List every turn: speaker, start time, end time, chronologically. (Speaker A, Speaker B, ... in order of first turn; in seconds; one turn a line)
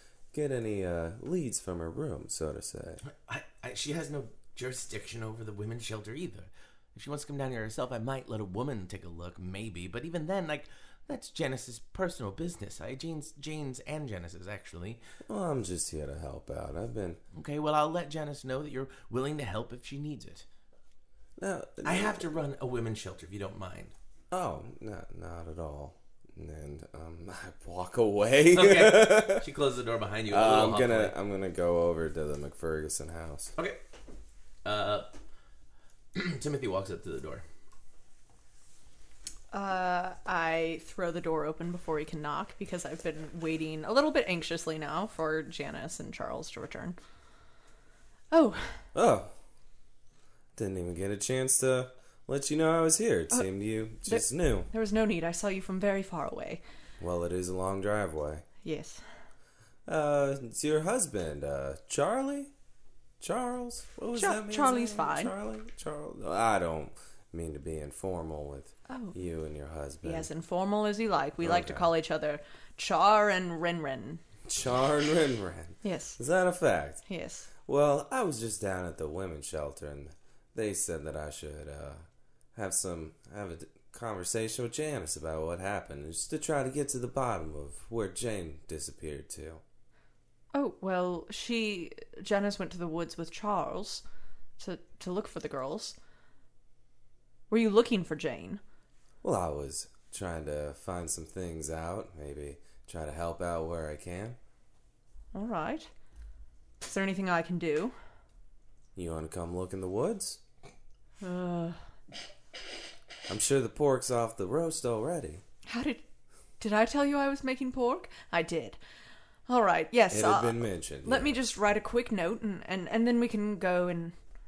Speaker A: 0.3-3.0
Speaker B: 3.0-15.0
Speaker A: 15.2-17.2
Speaker B: 17.3-20.4
Speaker A: 21.4-22.3
Speaker B: 21.8-23.9
Speaker A: 24.3-29.5
Speaker B: 28.5-31.1
Speaker A: 30.3-33.5
Speaker B: 34.6-35.1
Speaker B: 36.1-37.4
Speaker C: 39.5-47.0
Speaker C: 48.3-48.7
Speaker A: 48.9-49.3
Speaker A: 50.5-54.7
Speaker C: 54.0-56.6
Speaker A: 57.0-58.4
Speaker C: 58.6-59.0
Speaker A: 59.9-62.5
Speaker A: 63.2-70.3
Speaker C: 64.2-65.3
Speaker C: 68.9-69.2
Speaker C: 70.0-74.2
Speaker A: 71.4-71.9
Speaker A: 74.5-77.0
Speaker C: 75.8-76.2
Speaker C: 77.1-77.5
Speaker A: 77.6-82.0
Speaker A: 82.5-89.6
Speaker C: 90.5-94.0
Speaker C: 94.6-96.0
Speaker C: 97.5-98.6
Speaker A: 99.2-104.4
Speaker C: 105.3-105.9
Speaker C: 106.8-107.9
Speaker A: 109.0-110.4
Speaker C: 111.2-111.8
Speaker A: 113.3-115.4
Speaker C: 115.7-116.0
Speaker C: 116.6-118.8
Speaker C: 119.5-124.1
Speaker A: 120.1-121.3